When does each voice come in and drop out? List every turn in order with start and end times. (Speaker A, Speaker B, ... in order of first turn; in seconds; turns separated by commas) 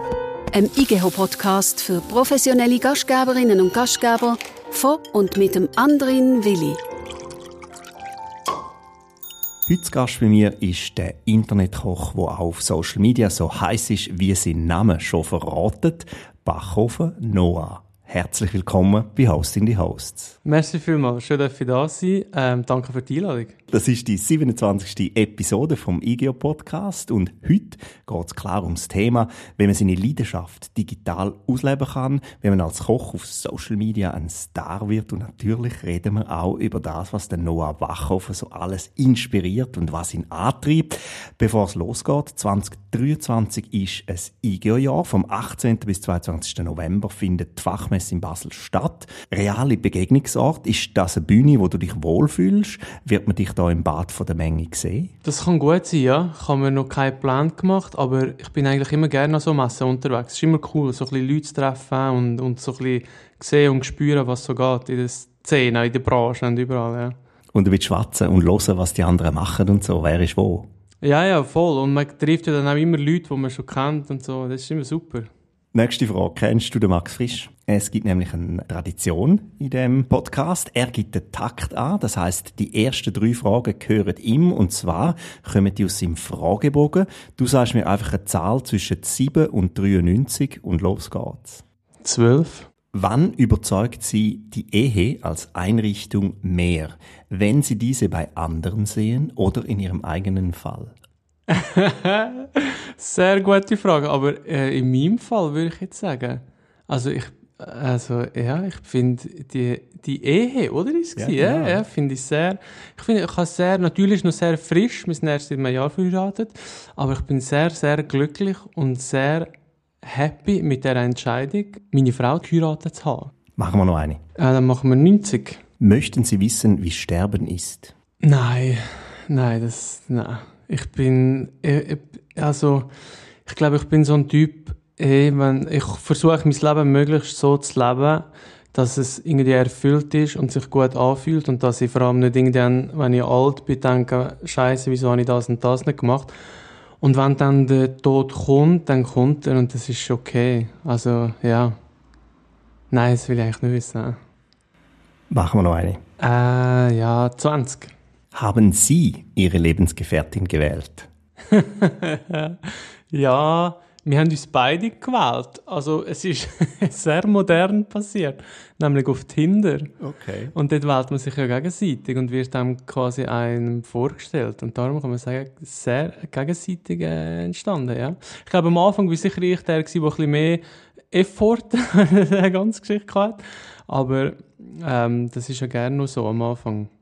Speaker A: 0.5-6.8, Speaker B: 9.7-20.4, Speaker C: 20.4-23.6, Speaker B: 23.7-55.1, Speaker C: 55.2-67.2, Speaker B: 67.5-70.7, Speaker C: 71.0-75.3, Speaker B: 75.7-91.6, Speaker C: 92.0-92.7, Speaker B: 92.9-101.0, Speaker C: 101.5-119.5, Speaker B: 111.2-111.8, Speaker C: 120.0-123.3, Speaker B: 123.6-124.2, Speaker C: 124.4-125.6, Speaker B: 125.8-127.9, Speaker C: 128.2-132.9, Speaker C: 133.5-146.3, Speaker C: 147.0-151.8, Speaker C: 152.9-154.2, Speaker B: 155.3-156.0, Speaker C: 156.2-157.9, Speaker B: 158.3-161.1, Speaker C: 161.5-169.9, Speaker B: 170.0-170.5, Speaker C: 170.5-186.9